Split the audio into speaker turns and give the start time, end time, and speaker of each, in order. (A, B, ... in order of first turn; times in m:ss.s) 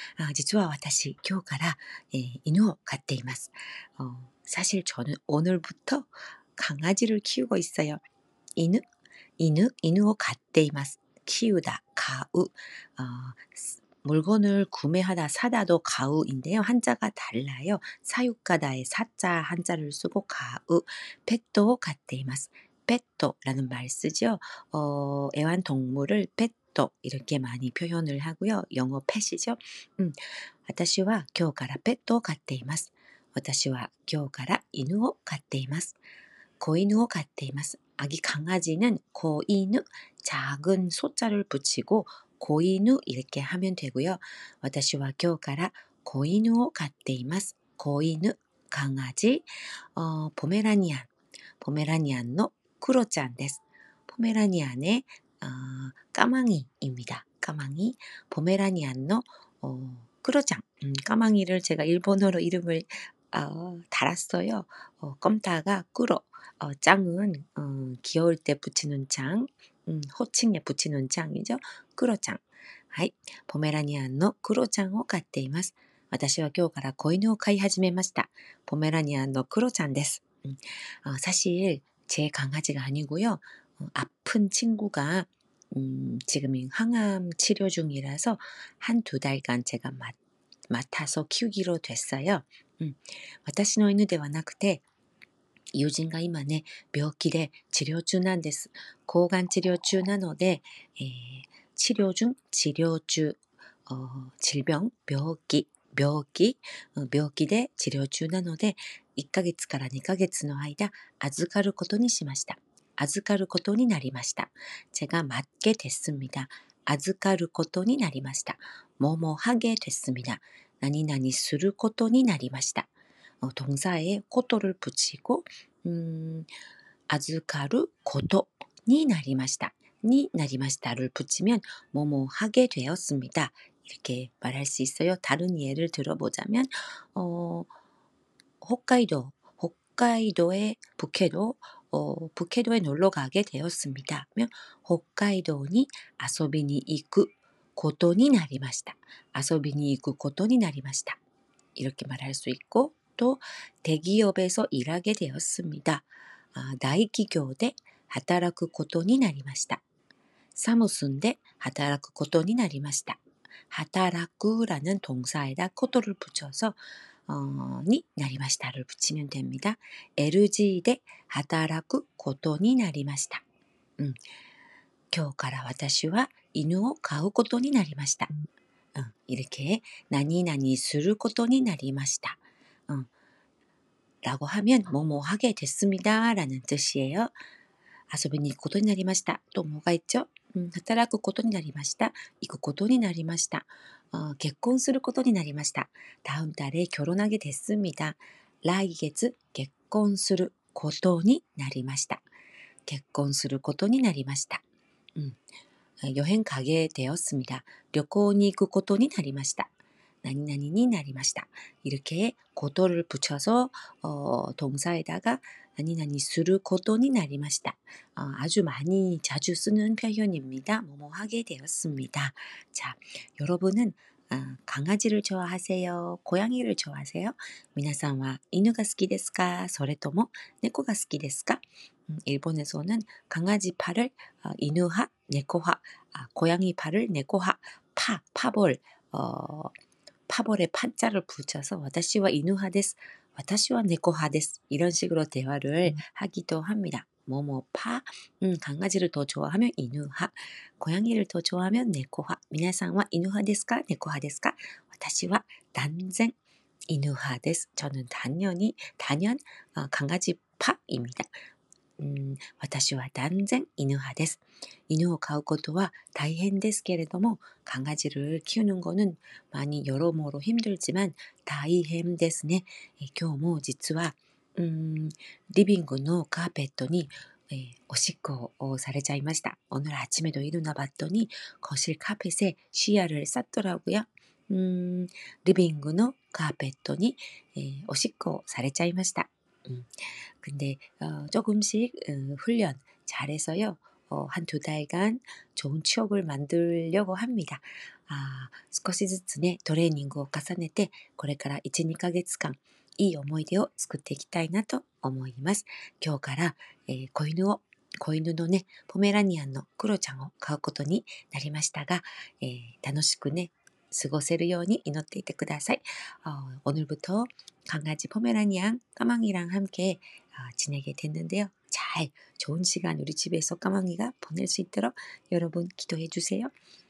0:00.2-0:08.0 A
0:08.6-0:08.8 A
0:09.4-0:36.0 A
0:36.6-0:51.1 A
0:51.6-1:30.2 A
1:30.7-1:34.8 A
1:35.7-2:02.9 A
2:03.4-2:06.5 A
2:07.1-2:17.7 A
2:18.6-2:31.2 A
2:31.8-2:39.8 A
2:40.5-2:53.4 A
2:55.1-2:58.3 A
2:58.9-3:03.1 A
3:04.2-3:07.3 A
3:08.1-3:22.2 A
3:22.8-3:24.6 A
3:26.0-3:29.7 A
3:30.2-3:59.7 A
4:00.3-4:16.3 A
4:16.9-4:21.3 A
4:22.0-5:26.5 A